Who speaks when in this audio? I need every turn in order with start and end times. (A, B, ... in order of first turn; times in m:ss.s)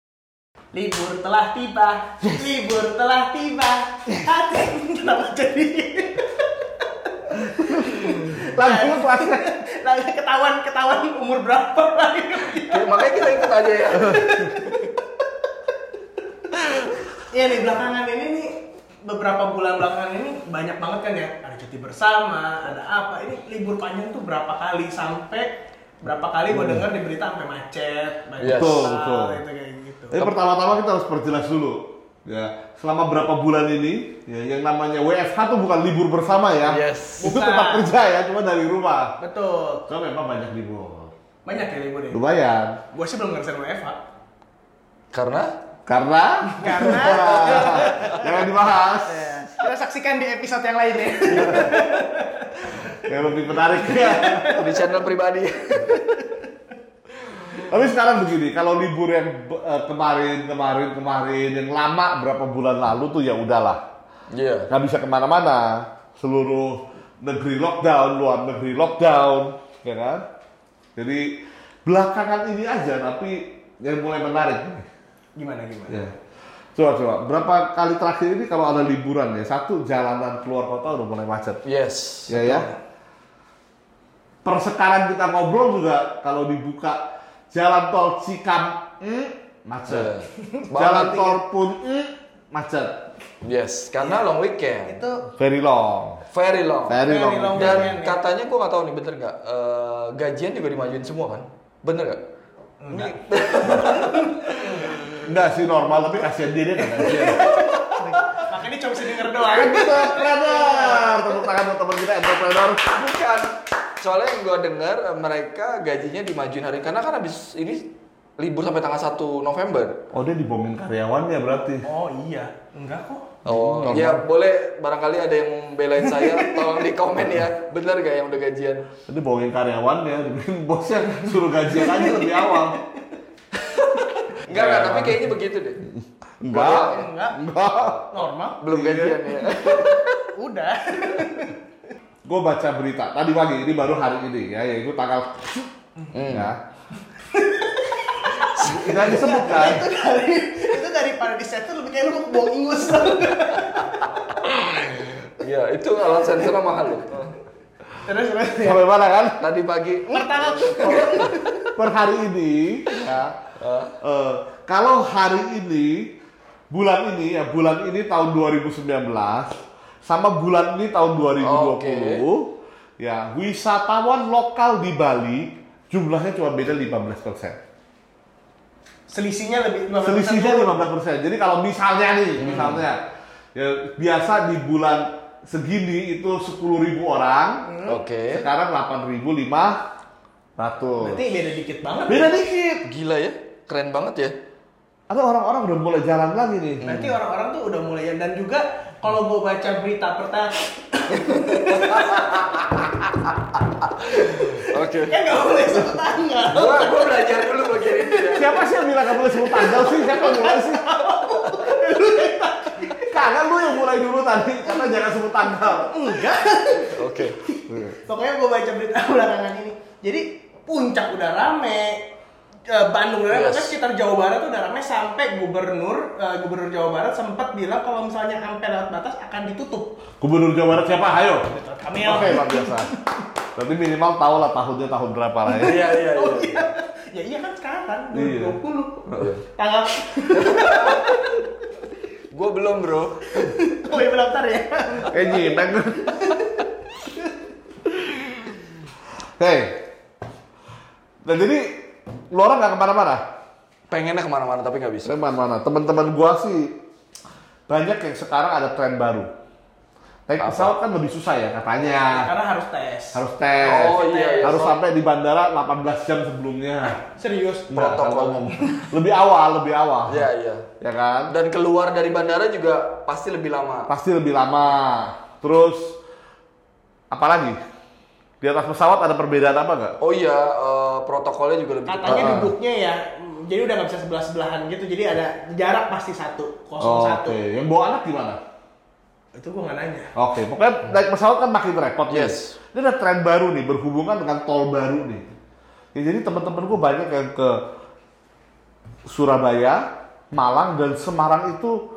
0:00.7-0:15.0 A
0:02.2-0:02.5 B
0:07.6-0:09.5 B
0:12.6-0:14.4 C
0:17.3-0:25.5 A
0:26.0-0:30.2 A
0:26.5-0:26.8 B
0:28.4-0:29.4 B
0:28.4-0:28.9 C
0:30.1-0:39.2 B
0:36.6-0:37.3 C
0:37.2-0:37.9 A
0:39.2-0:39.8 A
0:39.9-0:41.1 B
0:41.4-0:42.2 A
0:42.1-0:42.8 B
0:42.9-0:44.0 A
0:45.1-0:45.5 C
0:45.9-0:49.4 B
0:46.6-0:48.2 A
0:47.3-0:48.2 C
0:49.1-0:53.0 A
0:51.3-0:51.8 B
0:53.0-0:54.6 B
0:53.5-0:54.7 A
0:54.5-0:56.1 C
0:55.9-0:56.4 A
0:57.4-1:03.8 B
1:04.3-1:04.7 C
1:04.7-1:10.2 B
1:11.0-1:14.9 B
1:15.4-1:16.1 A
1:16.8-1:21.6 B
1:21.6-1:22.4 C
1:22.3-1:22.7 B
1:22.3-1:22.8 A
1:24.4-1:30.1 B
1:29.9-1:31.4 C
1:30.7-1:33.0 B
1:33.4-1:35.0 C
1:34.0-1:35.2 A
1:35.4-1:36.2 B
1:36.3-1:37.0 C
1:36.9-1:37.9 B
1:37.1-1:38.2 A
1:37.6-1:42.2 C
1:42.8-1:45.0 A
1:42.9-1:45.3 C
1:45.2-1:48.3 B
1:46.8-1:51.4 A
1:47.2-1:47.6 C
1:49.2-1:52.9 B
1:52.8-1:53.4 C
1:54.0-1:57.8 C
1:58.4-2:00.0 C
2:00.1-2:01.8 B
2:01.8-2:03.3 A
2:03.4-2:04.2 B
2:03.4-2:08.8 C
2:06.0-2:06.7 A
2:09.1-2:12.8 B
2:11.3-2:12.8 A
2:13.7-2:15.8 C
2:14.5-2:15.3 B
2:15.9-2:18.0 B
2:16.5-2:17.1 C
2:16.7-2:17.4 A
2:17.8-2:20.1 C
2:18.1-2:18.6 A
2:18.7-2:19.8 B
2:20.2-2:21.5 A
2:22.2-2:25.7 B
2:26.1-2:26.5 C
2:26.3-2:26.6 B
2:27.2-2:34.2 A
2:28.5-2:29.1 C
2:28.6-2:29.9 B
2:34.4-2:37.4 C
2:38.0-2:38.8 A
2:38.6-2:39.4 B
2:39.4-2:41.4 C
2:40.1-2:41.5 A
2:41.8-2:43.4 B
2:43.6-2:43.9 C
2:44.0-2:46.2 B
2:46.7-2:49.5 B
2:50.1-2:57.6 B
2:51.4-2:52.2 C
2:59.1-3:00.8 A
3:00.0-3:03.0 B
3:02.4-3:02.8 C
3:03.6-3:09.8 B
3:07.6-3:08.0 A
3:07.9-3:08.5 C
3:10.6-3:11.2 B
3:11.0-3:12.4 A
3:12.1-3:12.8 B
3:12.8-3:14.3 C
3:15.1-3:16.9 B
3:16.8-3:17.2 C
3:16.8-3:23.3 A
3:21.5-3:22.6 C
3:23.9-3:33.3 A
3:24.1-3:25.2 C
3:26.5-3:28.6 C
3:28.3-3:30.8 B
3:33.0-3:36.2 B
3:34.7-3:35.0 A
3:35.8-3:42.0 A
3:36.9-3:37.4 C
3:37.7-3:38.0 B
3:42.7-3:49.9 A
3:43.3-3:43.8 C
3:50.2-3:51.4 B
3:51.5-3:52.9 A
3:52.0-3:52.9 B
3:53.6-3:55.8 B
3:55.6-3:56.7 C
3:55.6-4:01.4 A
3:58.1-3:59.3 B
3:59.1-3:59.4 C
4:00.3-4:01.2 C
4:02.3-4:03.3 C
4:03.3-4:07.1 A
4:05.1-4:06.2 B
4:09.4-4:09.8 B
4:11.2-4:11.8 B
4:12.3-4:13.2 B
4:13.9-4:15.2 C
4:15.0-4:16.8 B
4:17.7-4:19.3 B
4:20.3-4:22.3 B
4:20.4-4:20.7 C
4:22.0-4:24.6 A
4:23.1-4:27.0 B
4:23.6-4:24.8 C
4:26.9-4:27.7 A
4:27.7-4:30.3 B
4:27.7-4:28.4 C
4:28.6-4:28.9 A
4:30.1-4:30.6 C
4:30.8-4:31.3 B
4:31.3-4:33.9 C
4:33.9-4:36.0 B
4:37.1-4:37.6 B
4:38.4-4:40.0 B
4:40.0-4:42.5 C
4:41.8-4:47.4 A
4:42.0-4:42.5 B
4:46.8-4:48.4 B
4:49.3-4:50.1 A
4:50.2-4:55.3 B
4:52.1-4:52.6 C
4:55.9-4:57.6 B
4:59.0-5:01.8 B